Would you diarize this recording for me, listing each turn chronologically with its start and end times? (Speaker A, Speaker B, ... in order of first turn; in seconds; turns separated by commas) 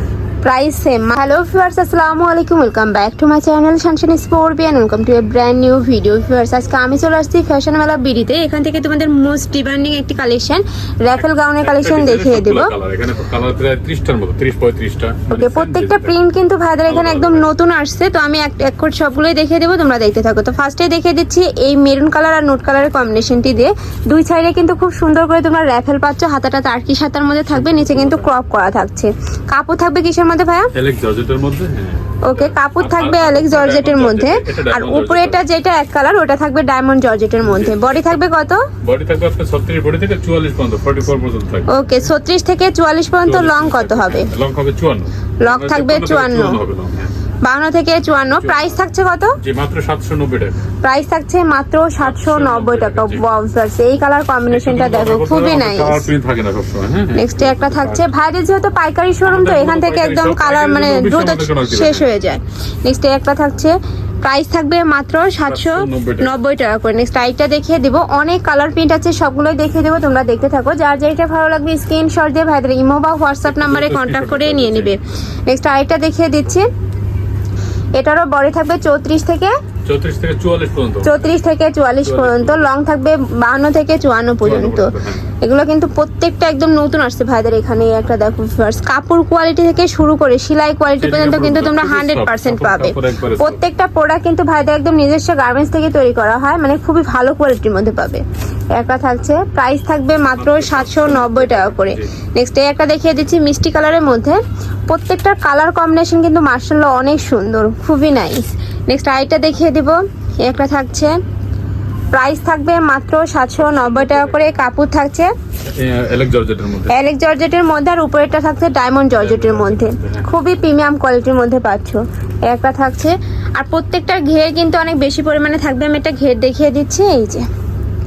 Speaker A: 0.4-12.7, Speaker B: 11.2-16.2, Speaker A: 15.3-30.7, Speaker B: 16.9-17.5, Speaker B: 27.5-28.3, Speaker B: 30.7-35.4, Speaker A: 32.2-38.7, Speaker B: 37.4-38.2, Speaker B: 38.8-41.8, Speaker A: 41.7-44.3, Speaker B: 43.2-47.1, Speaker A: 45.4-46.6, Speaker A: 47.4-49.4, Speaker B: 48.3-48.9, Speaker B: 49.4-50.6, Speaker A: 50.8-56.1, Speaker B: 52.0-53.2, Speaker B: 54.5-58.1, Speaker A: 57.1-76.7, Speaker B: 59.2-62.1, Speaker B: 65.4-66.3, Speaker B: 73.5-75.0, Speaker A: 78.0-79.5, Speaker B: 79.8-81.1, Speaker A: 81.0-111.2, Speaker B: 82.0-82.6, Speaker B: 84.4-85.3, Speaker B: 91.0-93.6, Speaker B: 100.3-102.1, Speaker A: 112.1-115.3, Speaker B: 113.6-114.5, Speaker B: 115.6-117.0, Speaker A: 116.9-127.5, Speaker B: 119.2-120.3